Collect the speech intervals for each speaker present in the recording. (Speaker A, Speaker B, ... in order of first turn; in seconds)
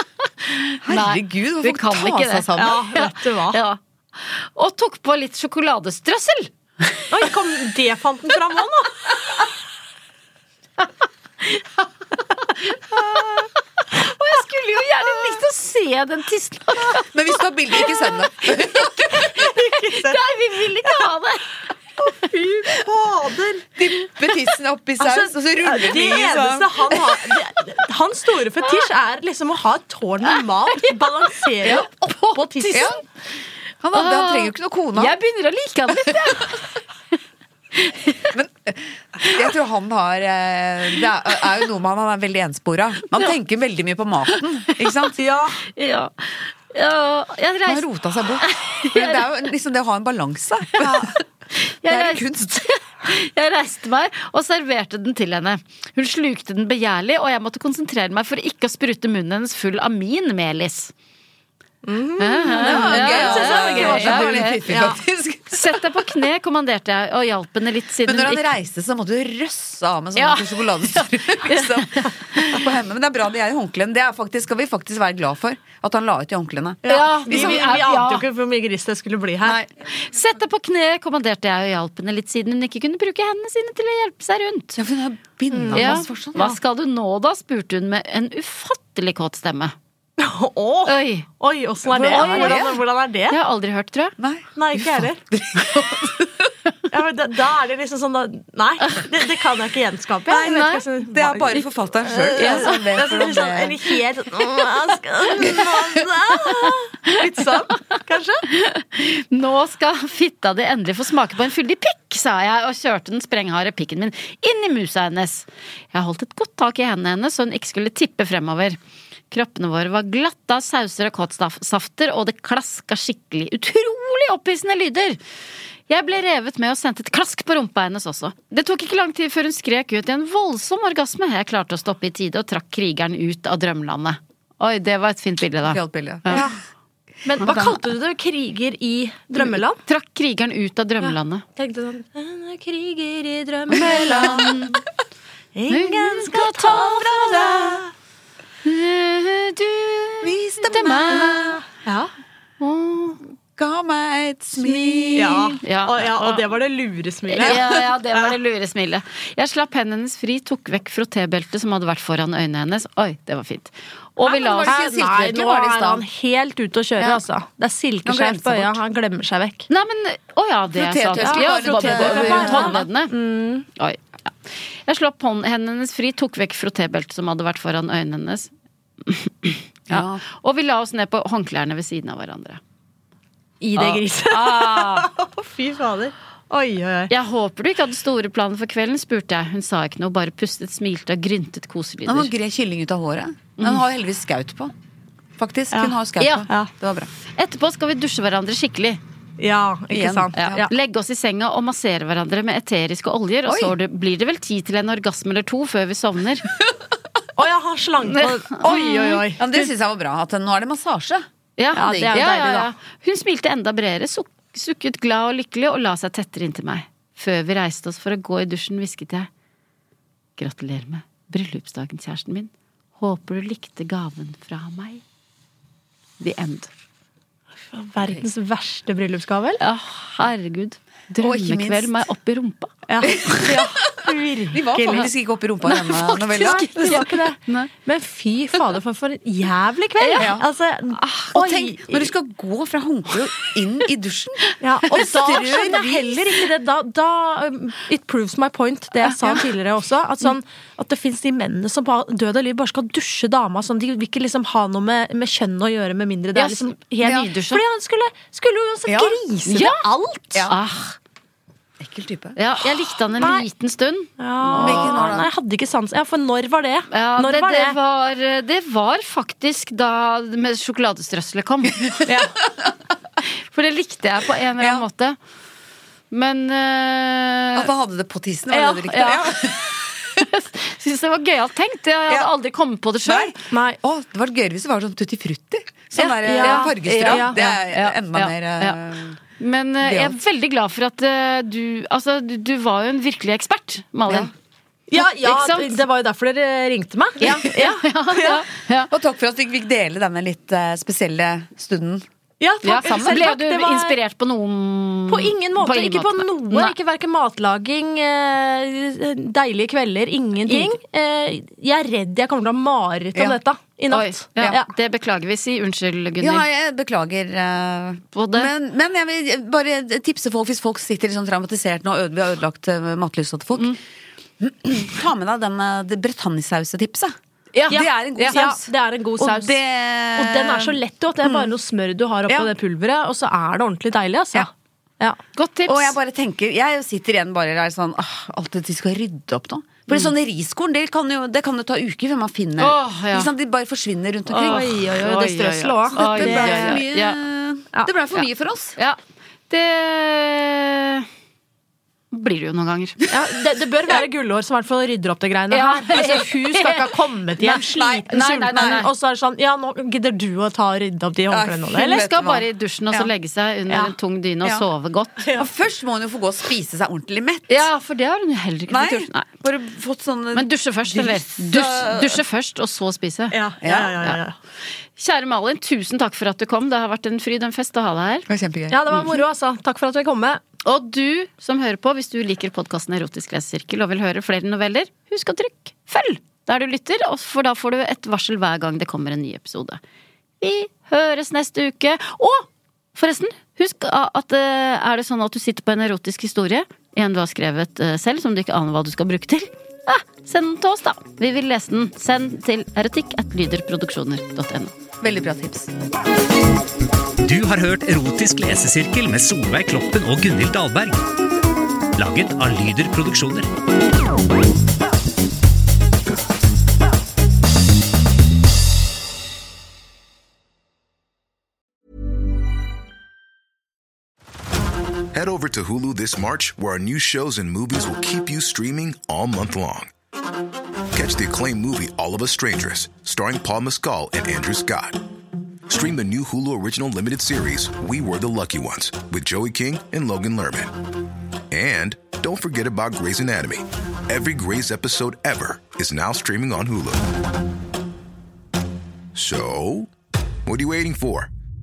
Speaker A: 0.4-7.0, 11.4-17.1, 18.4-21.5, 31.6-33.0, 33.9-36.7, 37.7-38.3, 45.6-47.9, 48.4-49.2, 51.5-60.9, 62.2-65.0, 65.5-68.5, 70.2-72.7, 76.9-78.3, 79.9-84.8, 85.7-89.7, 90.8-91.3, 92.1-92.8, 93.3-94.1, 100.3-100.8, 102.4-102.8, 108.5-118.8, 119.3-125.2, 125.9-136.4, 139.4-141.4, 143.7-144.8, 145.7-147.4, 148.6-151.6, 152.6-153.2, 155.6-156.4, 157.3-164.8, 169.7-173.1, 173.7-178.5, 179.0-182.6, 183.8-185.1, 187.1-192.3, 193.6-193.8, 196.2-196.5, 197.3-199.0, 200.3-206.5, 208.0-209.3, 211.6-219.3, 220.4-225.0, 226.2-226.7, 229.6-233.4, 235.6-237.7, 240.0-240.3, 256.3-257.6, 259.4-259.8, 260.5-260.9, 262.4-265.1, 266.9-272.1, 273.4-275.2, 276.1-277.7, 278.5-283.4, 285.9-288.8, 289.4-294.3, 294.9-295.8, 297.2-298.9, 302.6-306.7, 310.5-310.8, 313.9-316.4, 318.1-318.5, 327.5-328.4, 335.3-336.0, 342.6-343.3, 344.3-347.2, 348.1-349.0, 349.5-351.1, 352.1-353.1, 355.5-356.9, 358.1-358.9, 361.7-365.2, 367.5-369.3, 370.3-373.4, 374.9-378.3, 380.6-389.8, 390.4-404.7
Speaker B: 0.8-2.9, 16.9-19.4, 23.8-27.4, 32.7-33.0, 33.8-35.1, 38.3-45.2, 47.6-51.2, 51.8-52.7, 62.5-66.0, 68.0-77.7, 84.8-86.5, 91.9-92.8, 94.2-96.5, 100.3-103.9, 105.3-105.8, 135.7-136.5, 137.3-137.8, 143.7-144.7, 146.6-147.8, 150.2-151.6, 153.6-155.6, 157.4-157.7, 164.2-166.0, 168.0-168.8, 170.7-172.8, 179.9-180.2, 192.1-194.7, 195.4-197.1, 199.9-200.6, 203.4-203.7, 209.3-211.2, 211.8-212.1, 231.2-231.9, 233.2-237.0, 240.2-240.5, 241.3-246.4, 258.9-259.2, 261.8-262.4, 264.6-265.3, 274.6-274.9, 277.5-280.2, 283.0-289.2, 289.8-290.2, 298.9-302.1, 302.7-303.3, 316.2-323.7, 324.4-327.1, 327.7-328.6, 329.2-331.5, 335.7-344.7, 345.9-348.8, 357.5-358.8, 361.3-363.1, 365.4-367.7, 368.7-372.2, 373.6-374.1, 378.3-379.0, 405.0-405.7
Speaker C: 2.5-3.6, 7.1-9.1, 19.2-20.2, 22.0-23.7, 25.0-32.9, 45.2-45.6, 50.8-51.1, 61.8-65.0, 76.8-79.6, 85.5-86.5, 90.2-93.4, 94.5-95.2, 96.9-108.5, 137.2-139.8, 141.0-144.6, 145.5-147.9, 151.1-152.1, 155.1-158.3, 164.6-169.7, 171.2-173.7, 183.6-187.1, 199.4-200.7, 207.3-209.6, 211.7-212.7, 227.7-229.6, 232.9-235.1, 236.8-242.1, 244.6-260.5, 263.2-263.4, 264.2-267.8, 272.1-272.3, 283.5-283.8, 286.2-287.4, 294.9-298.4, 302.4-303.9, 305.1-314.7, 327.8-329.6, 330.1-335.2, 344.4-346.8, 353.1-362.1, 365.2-365.5, 373.3-374.4, 378.7-380.4
Speaker D: 407.2-411.0, 411.9-413.5
Speaker E: 425.1-429.9, 430.9-435.0, 435.7-440.7, 441.5-447.1, 449.1-449.9, 450.4-451.3